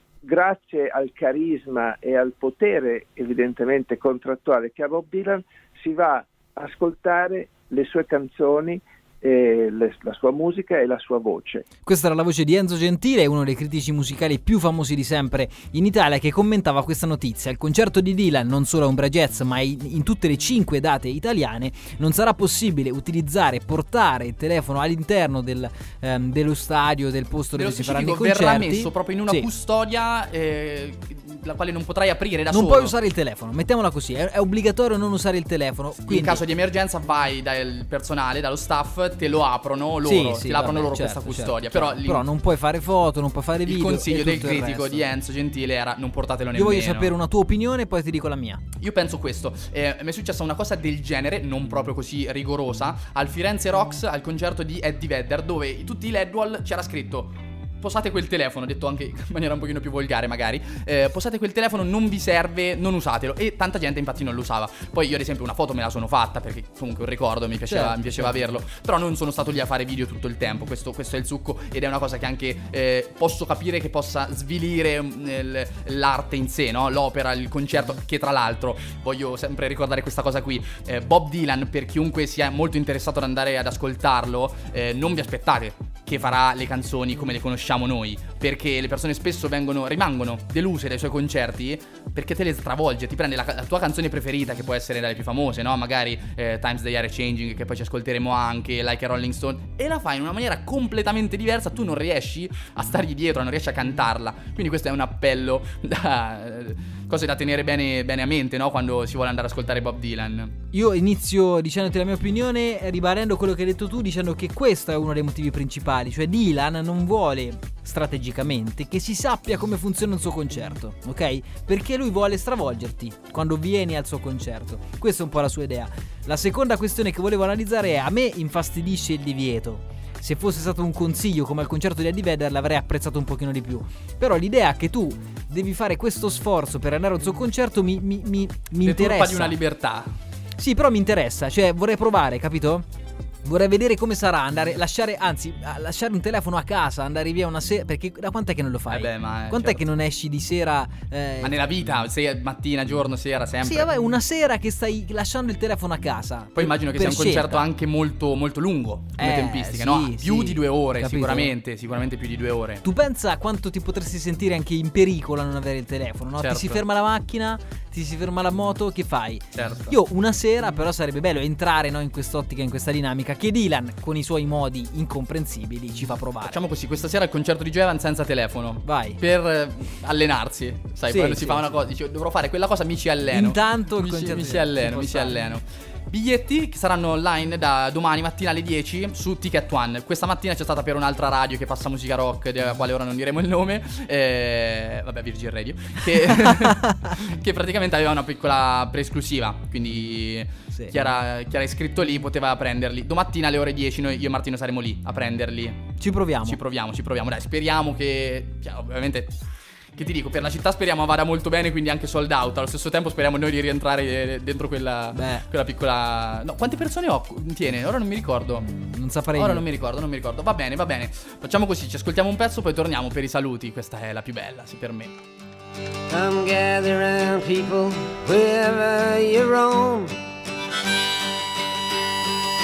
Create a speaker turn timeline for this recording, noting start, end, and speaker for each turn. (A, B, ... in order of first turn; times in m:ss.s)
0:00.2-0:11.6 A
0:11.8-0:29.5 B
0:27.5-0:32.9 C
0:32.5-0:36.4 B
0:36.1-0:42.2 C
0:40.0-0:45.0 B
0:43.6-0:47.1 C
0:46.5-0:48.6 B
0:48.8-1:50.6 C
1:07.7-1:08.4 B
1:50.7-2:19.6 B
2:18.8-2:20.1 C
2:20.6-2:22.8 B
2:23.4-2:31.6 B
2:28.9-2:29.8 C
2:31.4-2:33.9 C
2:33.6-2:37.6 B
2:36.6-2:42.8 C
2:39.2-2:41.5 B
2:42.8-2:56.6 B
2:46.4-2:46.8 C
2:49.5-2:49.9 C
2:56.4-3:25.9 C
2:58.8-2:59.2 B
3:01.1-3:01.6 B
3:03.3-3:05.4 B
3:16.3-3:17.1 B
3:26.0-3:26.6 B
3:26.4-3:29.4 C
3:29.9-3:38.7 C
3:35.1-3:35.5 B
3:38.6-3:39.6 B
3:39.3-3:45.2 C
3:46.1-3:50.2 D